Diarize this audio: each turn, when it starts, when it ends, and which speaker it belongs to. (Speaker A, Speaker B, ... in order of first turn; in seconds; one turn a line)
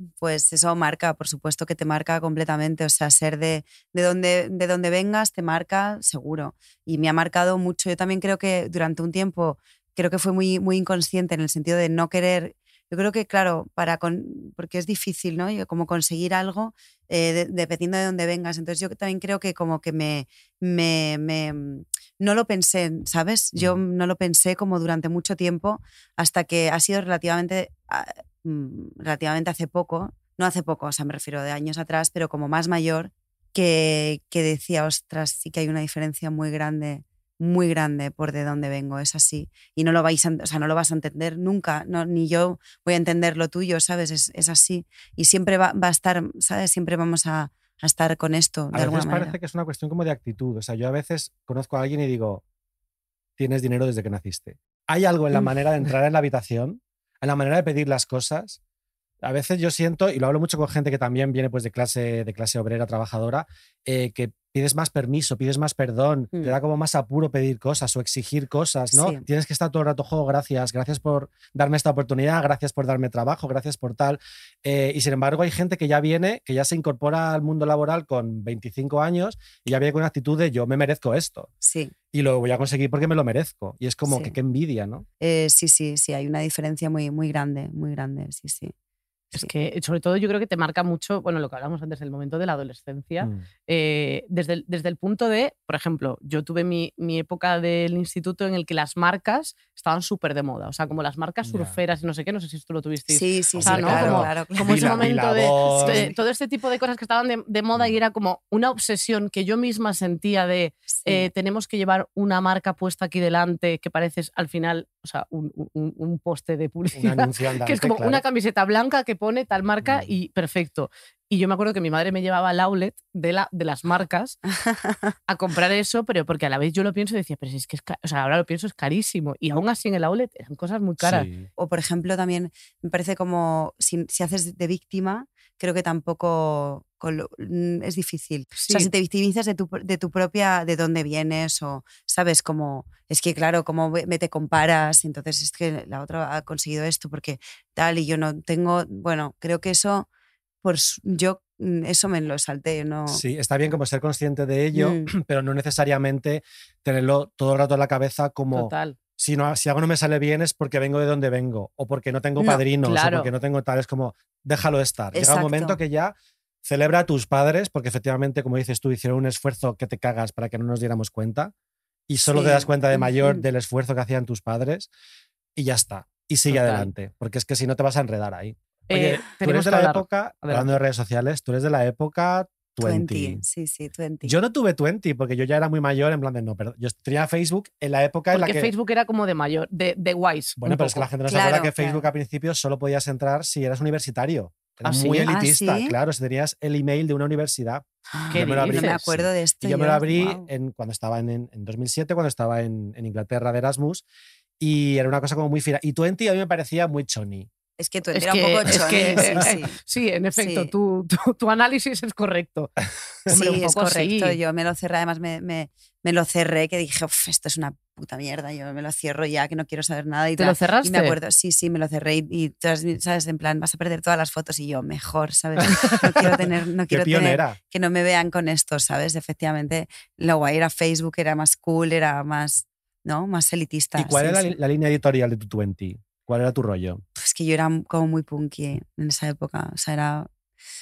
Speaker A: 0.2-49.4
Speaker B: 48.7-52.4
Speaker B: 53.4-58.6
Speaker B: 59.2-81.5
Speaker A: 68.9-69.2
Speaker A: 81.6-81.9
Speaker B: 82.1-85.0
Speaker A: 84.0-84.3
Speaker A: 85.2-88.7
Speaker C: 89.3-124.4
Speaker B: 93.2-93.4
Speaker B: 101.4-101.8
Speaker A: 103.1-106.2
Speaker B: 103.5-106.1
Speaker A: 110.9-111.3
Speaker B: 116.9-118.2
Speaker B: 119.8-120.1
Speaker A: 124.6-125.1
Speaker C: 125.3-131.3
Speaker B: 131.0-131.5
Speaker A: 131.6-150.1
Speaker C: 138.6-138.9
Speaker A: 150.6-153.2
Speaker B: 153.1-171.5
Speaker A: 154.7-155.1
Speaker C: 158.5-159.0
Speaker A: 162.4-162.6
Speaker C: 162.8-163.3
Speaker A: 165.1-165.8
Speaker B: 172.1-174.9
Speaker A: 172.2-173.4
Speaker B: 175.6-183.4
Speaker C: 176.5-176.9
Speaker C: 178.9-180.7
Speaker A: 182.8-184.3
Speaker B: 184.2-188.7
Speaker C: 188.3-191.1
Speaker B: 190.6-204.0
Speaker A: 191.3-192.1
Speaker C: 194.8-195.3
Speaker A: 195.2-195.9
Speaker A: 198.1-200.5
Speaker C: 198.3-198.9
Speaker B: 204.6-207.5
Speaker A: 207.8-209.8
Speaker C: 208.1-212.7
Speaker B: 208.8-209.4
Speaker A: 210.4-210.7
Speaker C: 213.3-214.4
Speaker A: 213.3-234.6
Speaker C: 220.4-221.2
Speaker B: 225.6-227.6
Speaker B: 234.0-237.0
Speaker A: 237.2-240.3